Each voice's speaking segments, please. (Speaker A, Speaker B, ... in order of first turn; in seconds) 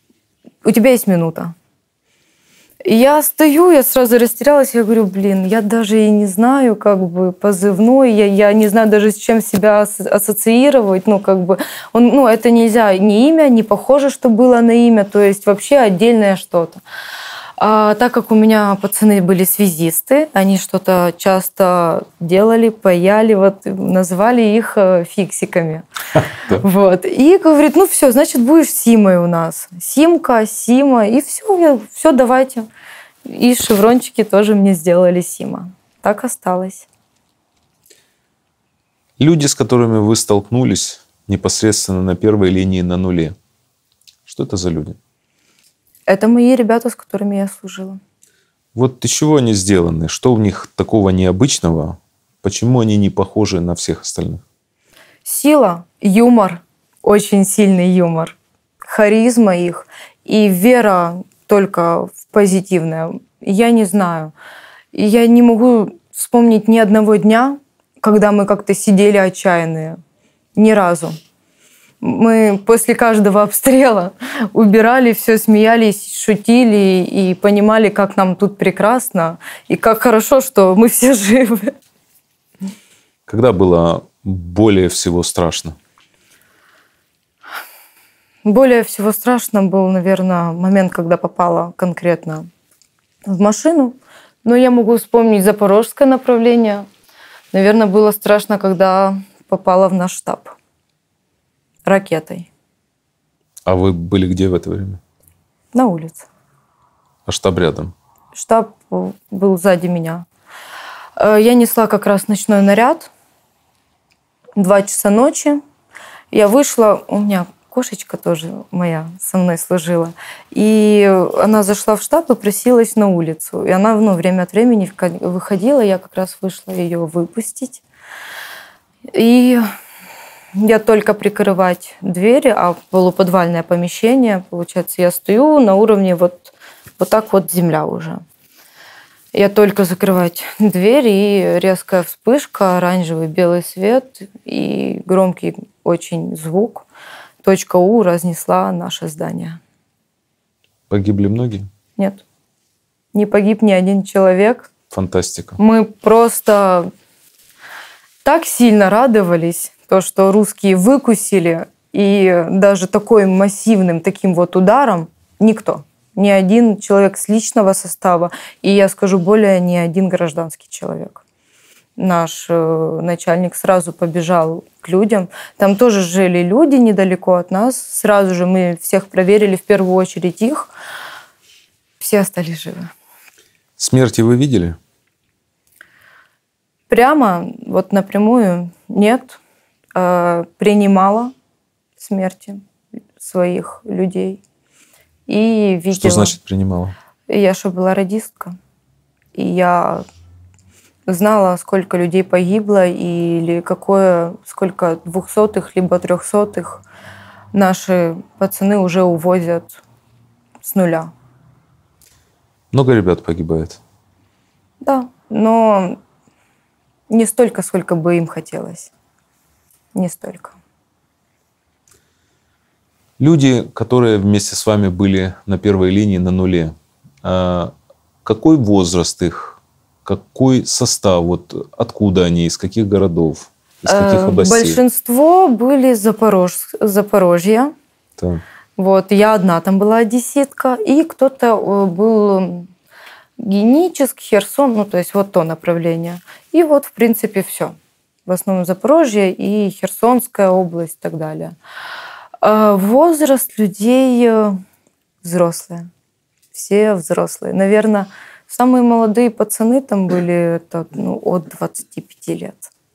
Speaker A: 0.6-1.5, 2.8-16.8, 17.6-25.9, 26.5-32.7, 33.2-36.9, 46.1-48.0, 55.2-58.4, 58.9-64.3, 64.9-70.0, 70.5-71.2, 72.0-81.7, 88.4-92.5, 93.2-96.8, 97.5-100.5, 101.8-102.5, 105.7-106.2, 108.3-110.2, 111.2-113.1, 114.6-115.6, 116.3-127.8, 129.1-129.6, 130.5-138.2, 139.3-146.9, 147.4-149.6, 152.0-152.2, 153.1-154.7, 155.6-156.9, 158.2-171.2, 172.0-180.7, 182.0-182.9, 186.9-189.4, 189.9-191.3, 192.0-192.6, 193.2-194.4, 195.3-196.4, 197.3-198.6, 199.3-200.0, 201.1-206.8, 207.5-209.8, 210.6-211.1, 214.8-216.0, 217.1-218.9, 219.9-220.6, 233.9-237.7, 238.8-242.7, 243.4-247.7, 248.3-251.6, 252.4-254.6, 255.2-255.9, 256.5-262.7
Speaker B: 39.2-43.3, 44.2-45.0, 48.7-54.4, 83.3-85.8, 103.7-105.0, 107.3-107.9, 150.9-151.7, 154.9-155.6, 183.8-184.8, 195.9-196.9, 212.7-213.8, 223.2-227.7, 228.2-234.8, 238.2-238.4